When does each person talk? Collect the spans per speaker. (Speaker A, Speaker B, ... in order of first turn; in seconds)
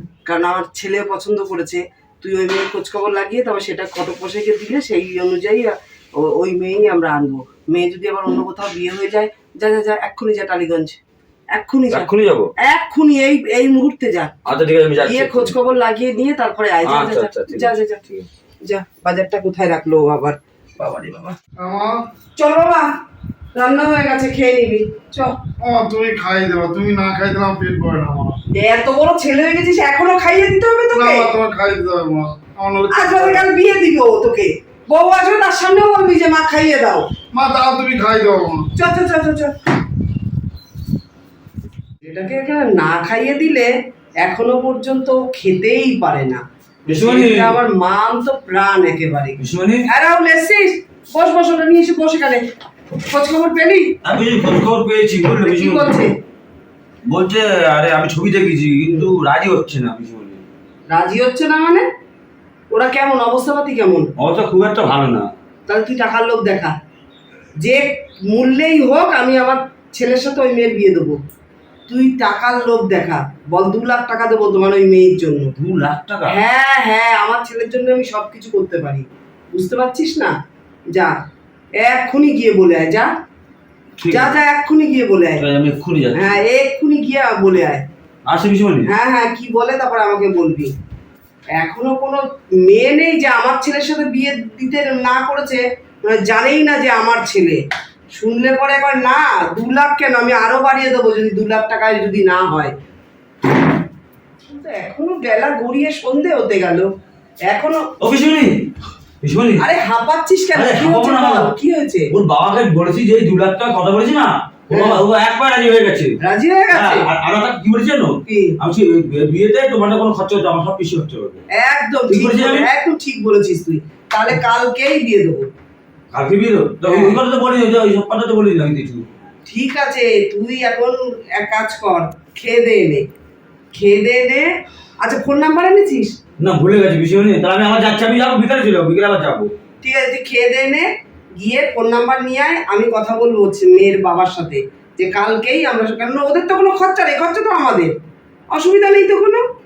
Speaker A: 0.3-11.0, 11.5-12.1, 12.6-14.4, 15.0-18.0, 18.7-21.4, 22.4-22.9, 23.6-25.4, 28.5-31.3, 32.9-37.0, 38.8-39.6, 42.0-43.7, 44.2-52.5, 53.1-53.9, 55.4-56.1, 60.9-61.9, 62.7-64.1, 65.7-66.8, 67.6-71.2, 71.9-75.5, 76.3-80.3, 81.8-83.1, 84.1-85.4, 86.2-87.9, 88.9-90.7, 91.5-97.6, 98.2-102.8, 104.5-106.9, 107.5-107.9, 109.6-112.1, 114.7-115.0, 116.2-117.1, 118.3-118.6, 121.5-125.5, 126.9-127.2, 129.5-133.1, 133.7-134.5, 135.0-136.2, 139.8-147.9, 148.5-149.4
Speaker B: 11.9-12.5, 14.5-15.5, 16.9-18.3, 46.9-47.6, 49.4-49.9, 54.0-56.0, 57.1-60.4, 64.2-65.3, 75.6-76.4, 84.0-84.3, 85.4-86.4, 88.3-88.9, 108.0-108.7, 109.2-109.7, 110.5-111.5, 112.1-116.2, 116.7-121.4, 122.1-122.7, 126.1-129.1, 136.4-139.5
Speaker C: 21.6-22.0, 25.6-28.4, 30.9-33.5, 37.3-38.7